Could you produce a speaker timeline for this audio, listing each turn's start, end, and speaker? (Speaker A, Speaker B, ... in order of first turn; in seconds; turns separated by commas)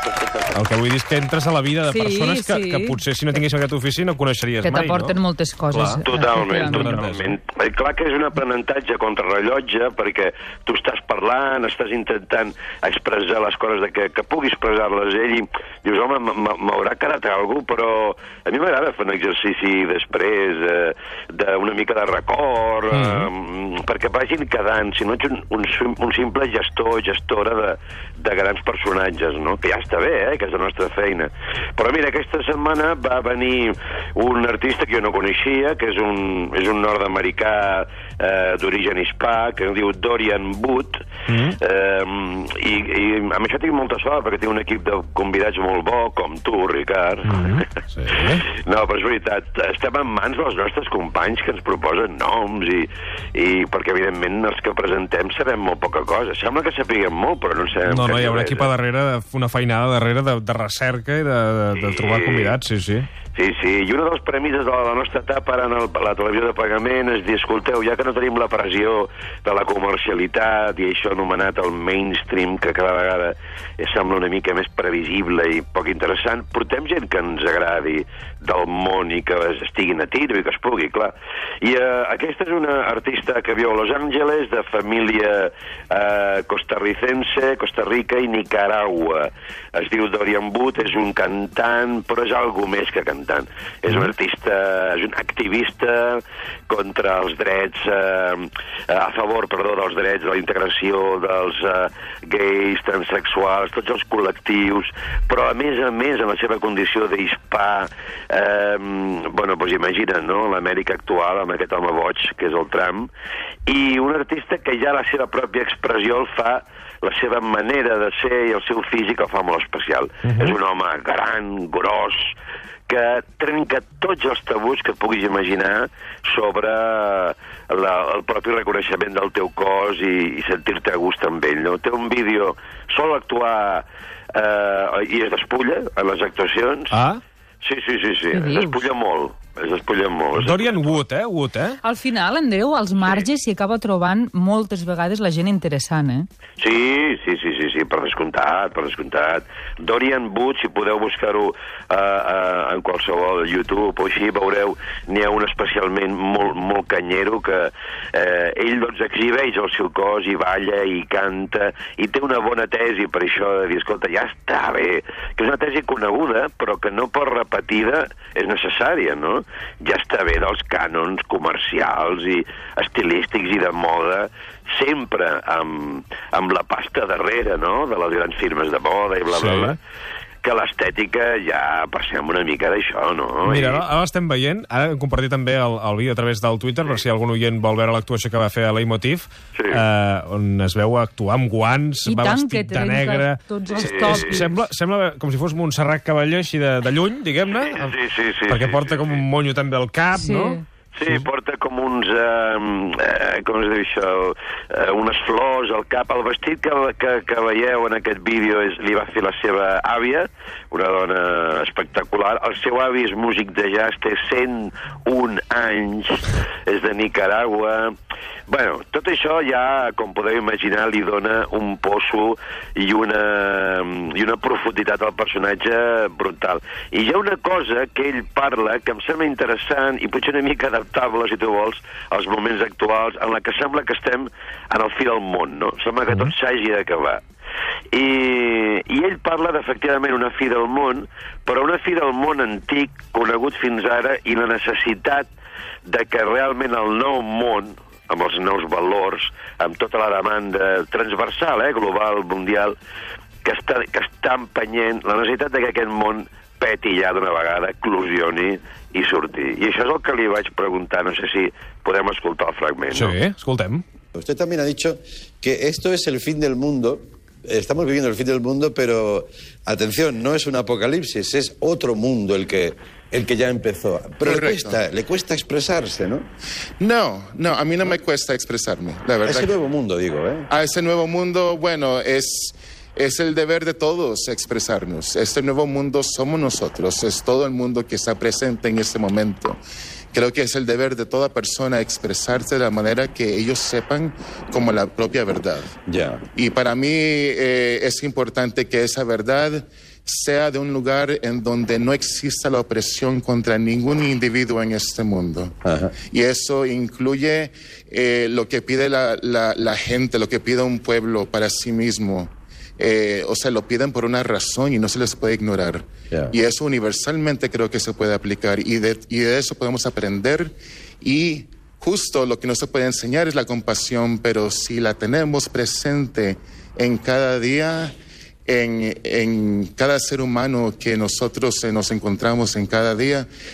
Speaker A: 0.5-5.2, Speaker B: 1.9-3.0, Speaker B: 4.6-7.0, Speaker A: 5.7-7.3, Speaker C: 6.0-41.0, Speaker A: 22.9-23.3, Speaker A: 41.3-41.6, Speaker C: 41.6-47.7, Speaker A: 47.3-48.4, Speaker C: 48.4-58.7, Speaker A: 57.9-63.1, Speaker C: 61.8-62.6, Speaker C: 63.3-113.1, Speaker C: 113.7-122.3, Speaker A: 120.2-120.5, Speaker C: 122.9-137.0, Speaker A: 136.9-137.2, Speaker C: 137.6-141.0, Speaker B: 138.3-138.9, Speaker A: 140.4-141.8, Speaker B: 141.8-146.3, Speaker C: 146.6-179.8, Speaker A: 179.3-179.8, Speaker C: 180.4-183.8, Speaker A: 183.4-197.9, Speaker C: 189.6-189.8, Speaker B: 192.1-194.6, Speaker C: 193.8-194.4, Speaker C: 197.6-199.2, Speaker A: 198.5-200.6, Speaker B: 200.1-200.6, Speaker C: 200.9-217.9, Speaker C: 218.5-237.2, Speaker C: 237.9-245.3, Speaker C: 245.9-252.8, Speaker C: 253.4-263.2, Speaker A: 262.9-263.8, Speaker D: 264.1-276.3, Speaker E: 274.2-274.8, Speaker E: 276.8-279.6, Speaker D: 279.2-280.5, Speaker E: 280.5-289.6, Speaker E: 290.1-295.8, Speaker D: 295.9-296.2, Speaker E: 296.3-327.9, Speaker D: 305.6-305.9, Speaker E: 328.5-333.3